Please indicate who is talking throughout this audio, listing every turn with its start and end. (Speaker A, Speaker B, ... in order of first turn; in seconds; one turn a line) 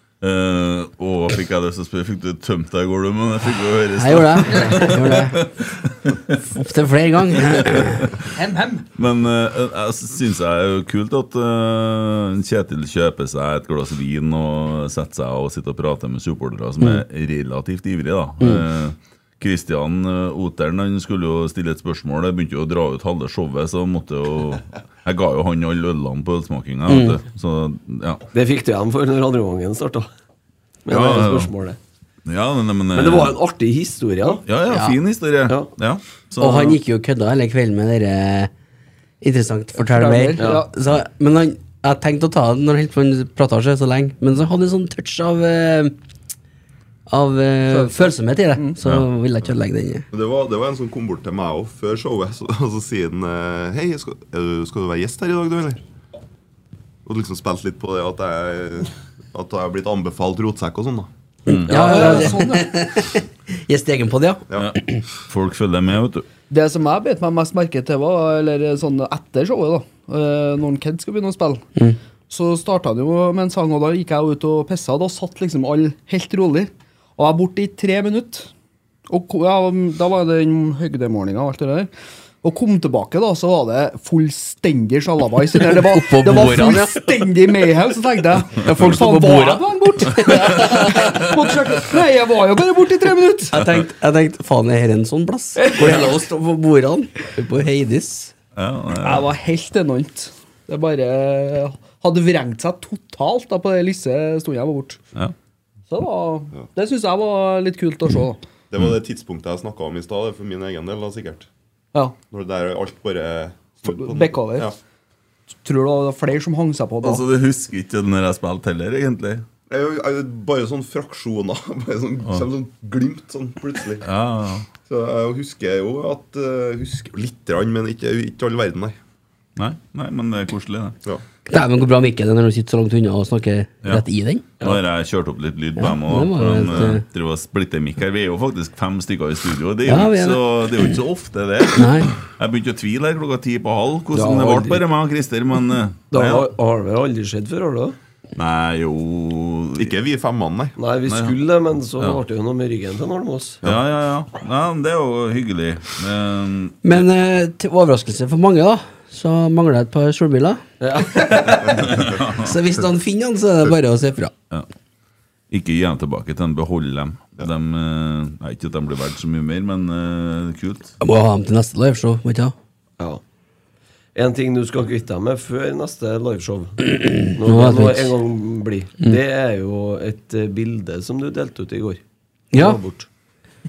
Speaker A: 0.2-6.4
Speaker B: 4.0-5.5
Speaker B: 6.5-8.2
Speaker A: 7.3-8.3
Speaker C: 8.3-8.9
Speaker A: 8.9-28.2
Speaker B: 26.9-27.2
Speaker D: 28.3-30.1
Speaker D: 30.8-31.8
Speaker A: 30.9-31.5
Speaker A: 32.2-33.4
Speaker D: 32.9-34.4
Speaker A: 34.4-36.8
Speaker B: 34.7-35.0
Speaker B: 36.4-38.5
Speaker B: 39.2-45.9
Speaker C: 39.8-40.7
Speaker D: 40.4-40.6
Speaker B: 47.1-50.0
Speaker C: 47.7-48.8
Speaker E: 50.1-55.8
Speaker E: 57.0-61.1
Speaker B: 61.5-65.0
Speaker A: 61.5-62.2
Speaker C: 61.7-62.8
Speaker A: 64.5-66.2
Speaker C: 66.5-71.7
Speaker C: 72.3-78.5
Speaker C: 79.1-81.9
Speaker C: 82.4-93.5
Speaker B: 85.5-87.1
Speaker B: 88.6-91.2
Speaker B: 93.5-98.3
Speaker C: 95.6-96.0
Speaker A: 98.5-99.3
Speaker C: 99.0-105.0
Speaker C: 105.9-108.4
Speaker E: 108.7-111.5
Speaker E: 112.3-114.8
Speaker C: 113.9-114.7
Speaker C: 115.6-117.2
Speaker A: 117.0-119.4
Speaker E: 119.7-124.0
Speaker A: 124.0-124.7
Speaker E: 124.8-129.0
Speaker A: 129.6-131.0
Speaker B: 131.5-134.4
Speaker A: 134.6-146.5
Speaker B: 135.8-137.0
Speaker B: 139.8-140.4
Speaker B: 141.7-142.1
Speaker D: 144.1-144.8
Speaker D: 146.1-148.0
Speaker A: 148.3-149.9
Speaker E: 149.8-150.8
Speaker D: 150.8-153.6
Speaker A: 151.1-151.3
Speaker A: 153.6-157.1
Speaker B: 156.8-164.3
Speaker D: 160.8-161.7
Speaker A: 161.7-162.6
Speaker A: 165.5-170.9
Speaker B: 171.0-172.5
Speaker D: 174.1-182.0
Speaker B: 176.9-178.1
Speaker B: 182.5-182.8
Speaker D: 182.5-183.1